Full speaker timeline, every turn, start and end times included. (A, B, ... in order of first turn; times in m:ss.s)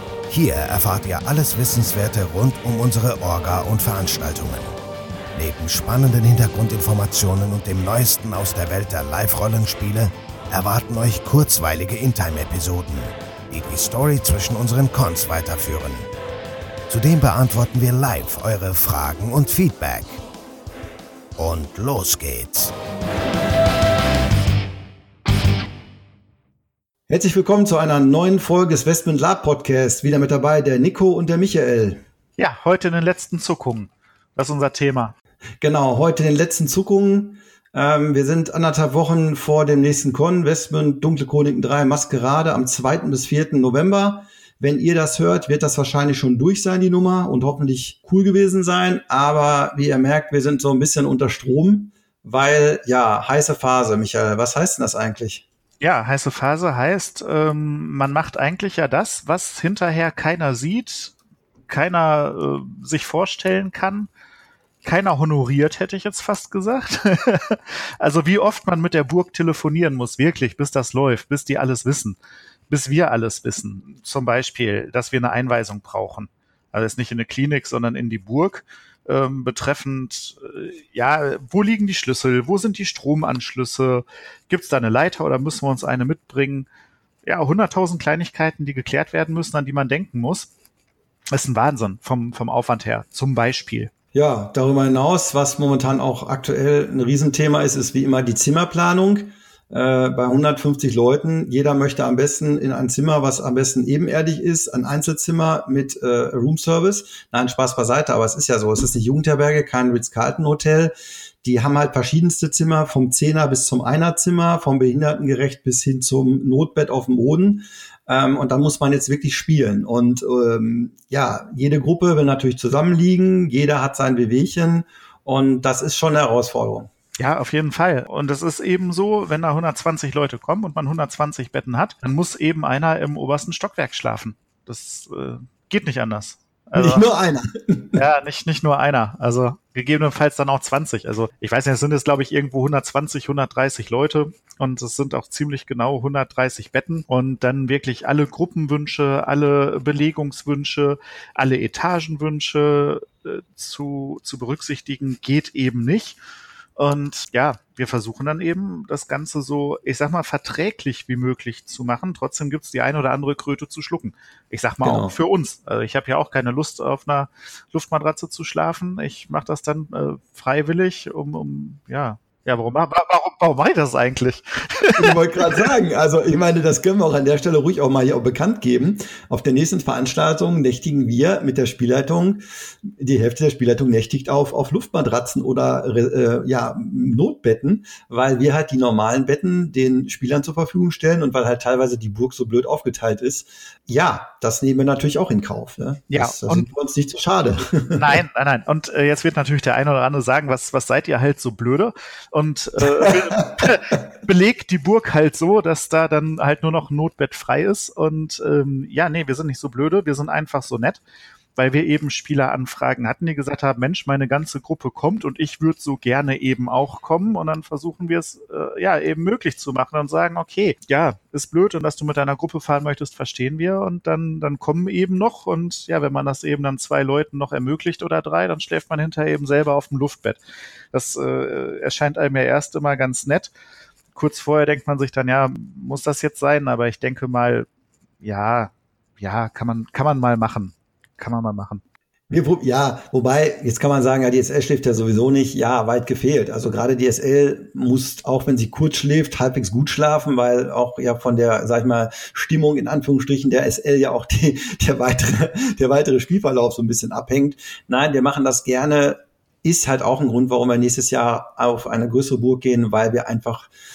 0:00.3-0:04.8 A
0:05.3-0:16.1 A
0:16.9-0:20.2 A
0:21.4-0:22.7 A
0:27.1-0:32.0 B
0:32.4-0:35.1 C
0:35.6-0:55.4 B
0:55.8-1:01.2 C
1:01.7-1:04.1 C
1:04.8-1:12.2 C
1:12.7-1:26.7 C
1:27.2-1:30.5 C
1:31.3-1:33.9 C
1:34.1-2:06.9 B
2:07.2-2:17.1 C
2:16.8-2:18.0 B
2:18.0-2:36.2 C
2:36.8-2:55.7 C
2:44.8-2:45.2 B
2:55.0-3:18.2 B
3:16.1-3:16.7 C
3:17.9-3:31.0 C
3:31.6-3:53.5 C
3:54.1-3:57.7 C
3:58.2-4:01.8 C
4:02.3-4:23.7 B